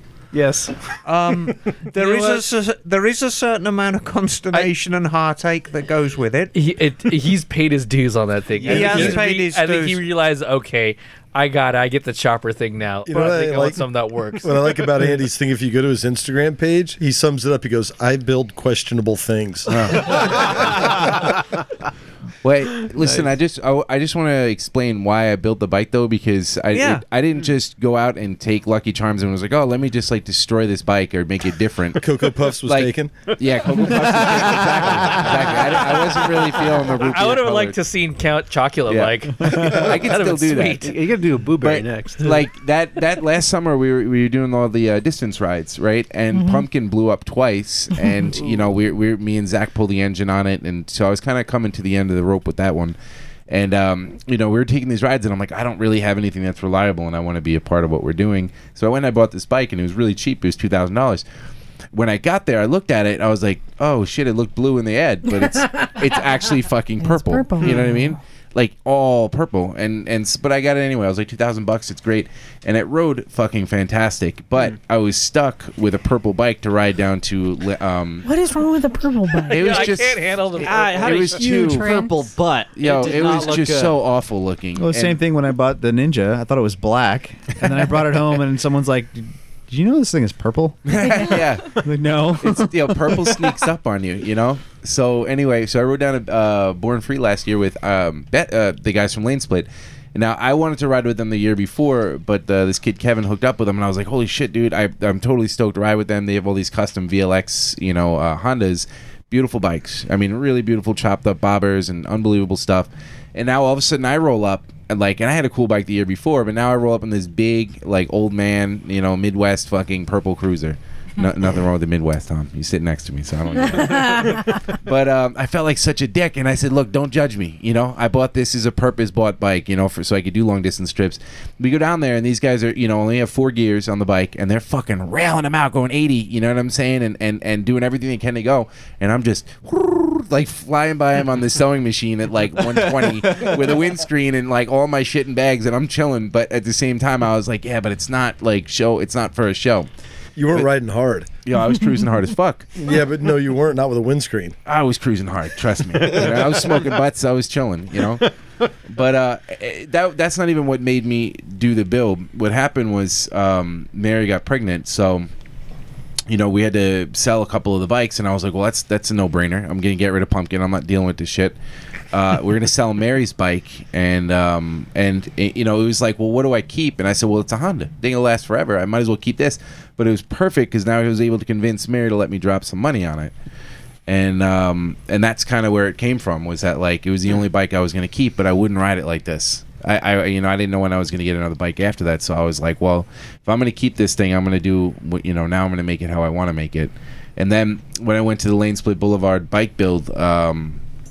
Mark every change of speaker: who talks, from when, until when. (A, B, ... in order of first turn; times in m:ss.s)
0:00.3-0:02.4 A
0:01.0-0:06.5 B
0:06.5-0:14.5 C
0:08.6-0:10.0 B
0:08.6-0:09.0 A
0:08.6-0:09.1 D
0:13.0-0:13.8 D
0:13.1-0:13.7 B
0:14.4-0:20.0 D
0:19.7-0:21.2 E
0:22.4-0:32.1 E
0:26.7-0:27.0 B
0:32.0-0:33.2 D
0:32.6-0:37.8 E
0:37.0-0:40.9 C
0:38.9-0:40.9 E
0:40.8-0:42.4 A
0:41.5-0:53.0 E
0:46.3-0:46.6 F
0:53.5-1:01.2 E
1:01.9-1:18.2 E
1:07.0-1:08.2 F
1:18.2-1:19.9 F
1:19.5-1:20.3 E
1:19.5-1:21.3 C
1:20.6-1:24.0 G
1:20.8-1:21.9 E
1:21.4-1:22.3 F
1:22.7-1:25.2 E
1:24.8-1:32.7 H
1:30.8-2:29.9 E
2:30.4-2:31.3 D
2:31.4-2:32.8 E
2:32.8-2:34.6 D
2:34.6-2:38.3 E
2:38.8-2:45.3 E
2:46.3-2:51.6 E
2:52.1-3:03.3 E
3:04.1-3:20.8 E